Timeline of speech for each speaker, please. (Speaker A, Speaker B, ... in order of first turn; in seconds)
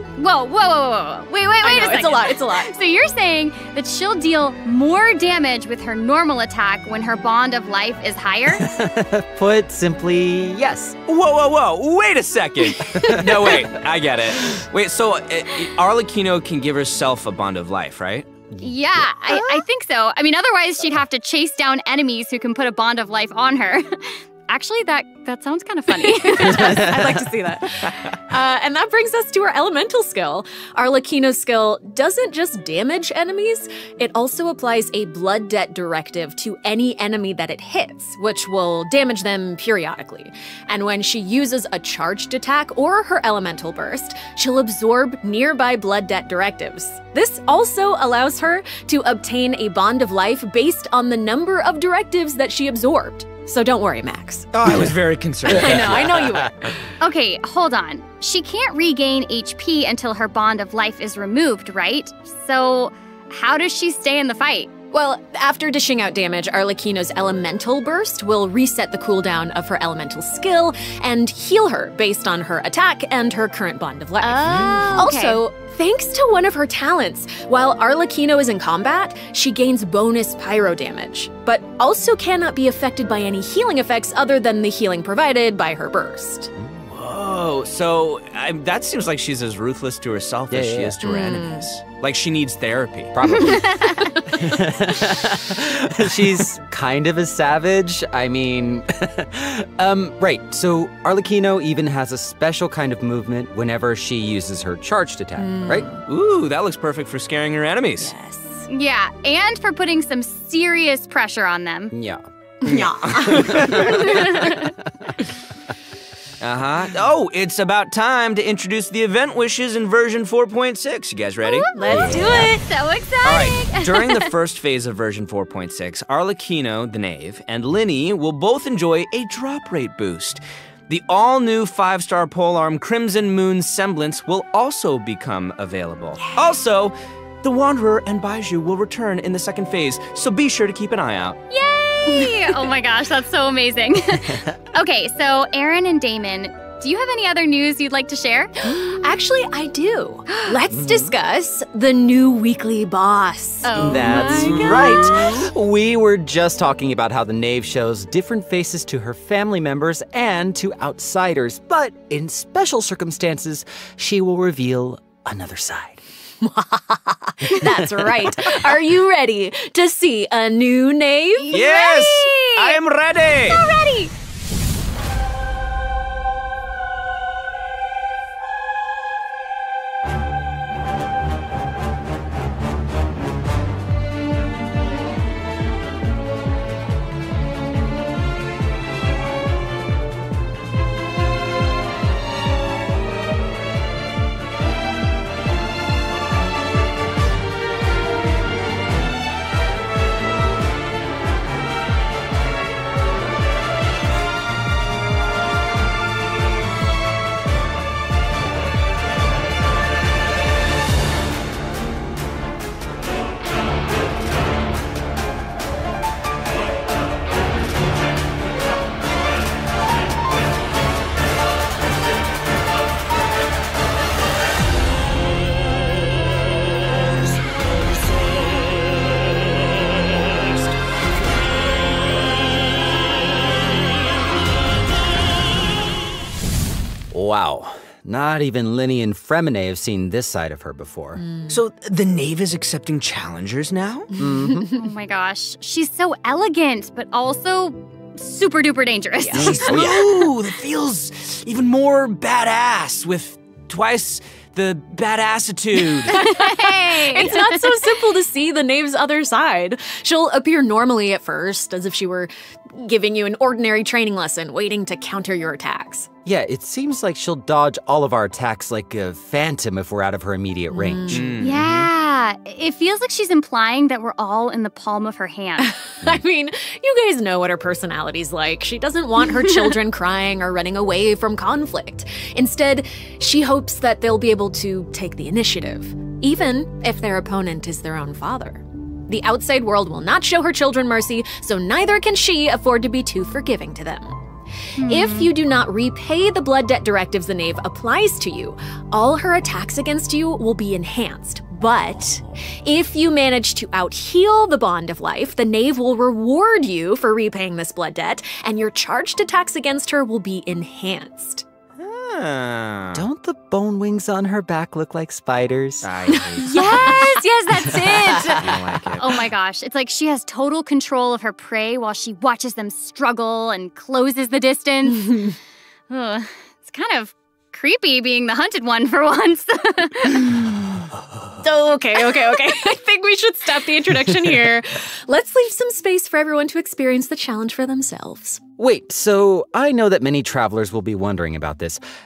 Speaker A: 0.1-8.6, 18.6-27.0, 57.0-64.7, 74.2-75.4, 91.0-91.5, 93.3-94.1, 108.7-111.9, 113.9-114.7, 121.4-124.3, 141.5-148.5, 150.3-150.5, 153.6-155.3, 171.4-172.5, 173.4-174.1, 244.7-250.2, 256.1-257.9, 271.4-275.7, 279.2-279.7, 294.8-295.3, 316.4-325.3, 325.9-330.3
Speaker B: 1.6-2.7, 25.9-54.8, 55.5-56.7, 64.9-86.5, 91.2-91.7, 105.4-106.0, 108.0-108.7, 112.6-113.5, 121.7-122.6, 136.2-136.5, 142.1-142.5, 148.6-155.5, 166.4-172.8, 241.2-241.6, 244.2-244.7, 249.2-249.7, 255.9-266.1, 270.7-271.4, 275.6-294.2, 294.8-311.4, 316.1-317.4, 331.4-338.4
Speaker C: 8.6-11.0, 12.9-13.8, 18.6-19.4, 26.4-27.2, 55.4-56.7, 86.6-86.8, 90.5-90.9, 93.1-105.9, 111.9-112.2, 113.4-114.0, 121.9-122.5, 150.7-151.1, 153.7-166.0, 167.5-168.8, 237.1-241.2, 244.2-244.7, 249.3-250.2, 266.2-271.9, 312.9-315.9, 317.6-318.7, 338.6-341.8
Speaker D: 11.1-18.3, 54.5-56.2, 86.9-93.2, 106.1-108.1, 112.7-114.0, 116.4-121.7, 123.2-141.4, 171.5-173.6, 241.5-244.1, 249.7-256.2, 271.1-271.6, 311.8-313.1, 315.8-316.6, 318.4-319.2